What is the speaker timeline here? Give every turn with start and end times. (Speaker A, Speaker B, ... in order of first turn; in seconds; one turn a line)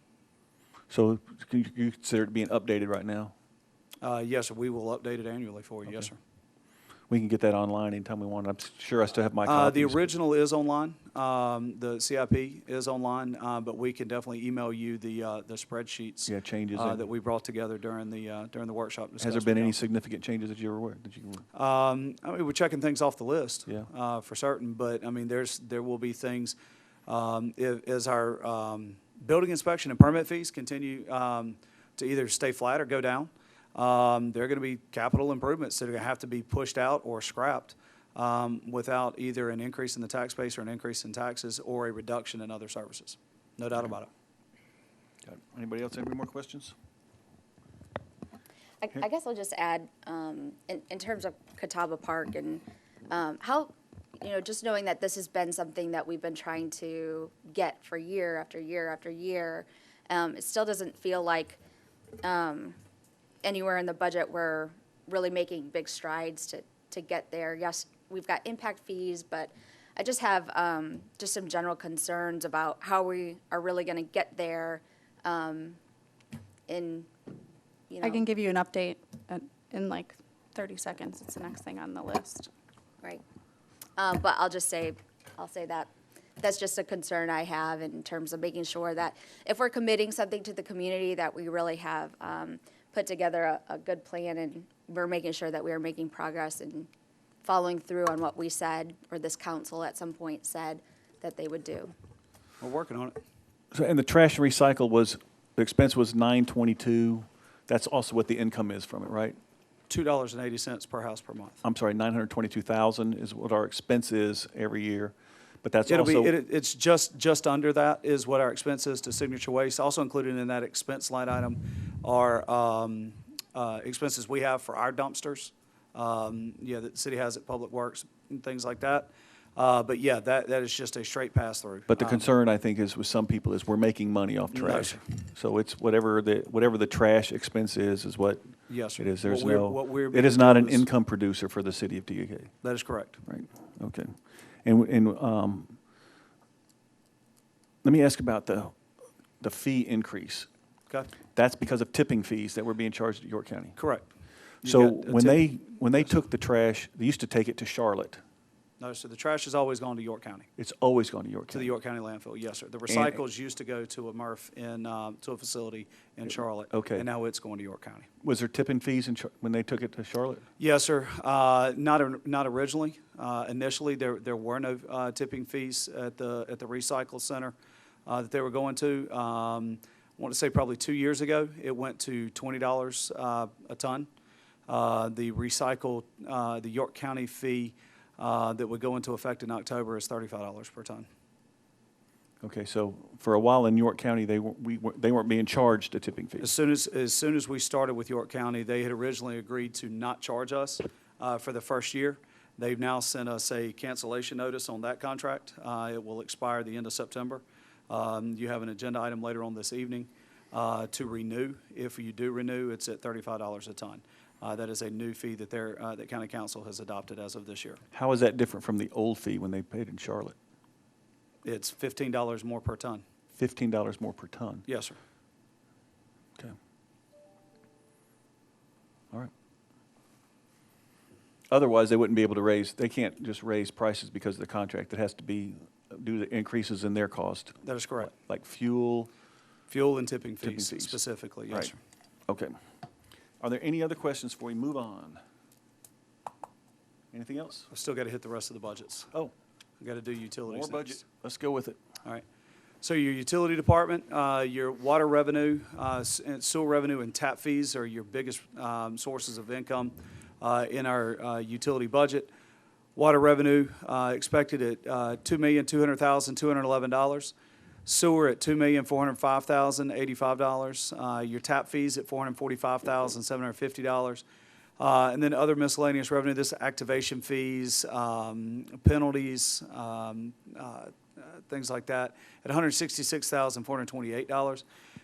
Speaker A: 0.9-3.3
Speaker B: 4.0-6.2
Speaker A: 7.1-10.1
Speaker B: 9.4-19.8
Speaker A: 16.3-17.1
Speaker A: 19.2-21.5
Speaker B: 21.5-26.6
Speaker B: 27.1-44.1
Speaker A: 45.2-46.7
Speaker C: 48.8-61.6
Speaker C: 62.2-62.8
Speaker C: 63.4-75.8
Speaker C: 76.7-77.1
Speaker C: 77.9-78.2
Speaker D: 78.0-82.5
Speaker C: 84.0-96.9
Speaker C: 97.4-101.9
Speaker B: 102.6-103.2
Speaker A: 103.7-109.4
Speaker B: 109.9-111.6
Speaker A: 111.6-116.3
Speaker B: 115.9-132.2
Speaker A: 131.9-142.5
Speaker B: 134.5-135.0
Speaker B: 138.7-140.9
Speaker B: 142.6-143.2
Speaker A: 143.3-145.8
Speaker A: 147.8-148.8
Speaker A: 149.4-150.5
Speaker A: 151.3-153.8
Speaker B: 153.8-154.1
Speaker B: 154.6-156.2
Speaker A: 154.6-158.2
Speaker B: 158.8-160.5
Speaker A: 160.6-161.7
Speaker B: 161.5-168.1
Speaker A: 162.9-163.2
Speaker A: 166.7-167.1
Speaker A: 168.2-170.4
Speaker B: 170.6-184.1
Speaker B: 184.7-191.1
Speaker A: 192.4-196.5
Speaker B: 196.4-217.8
Speaker A: 217.9-220.4
Speaker B: 221.4-223.0
Speaker A: 223.3-224.7
Speaker B: 224.7-225.0
Speaker A: 231.5-239.1
Speaker B: 237.6-238.1
Speaker B: 239.7-241.8
Speaker A: 240.4-241.0
Speaker A: 242.3-242.6
Speaker A: 243.4-245.2
Speaker A: 247.1-247.7
Speaker B: 247.7-249.1
Speaker B: 249.8-251.1
Speaker A: 250.5-251.8
Speaker B: 252.8-262.3
Speaker B: 263.0-267.3
Speaker B: 267.9-274.2
Speaker B: 274.8-284.6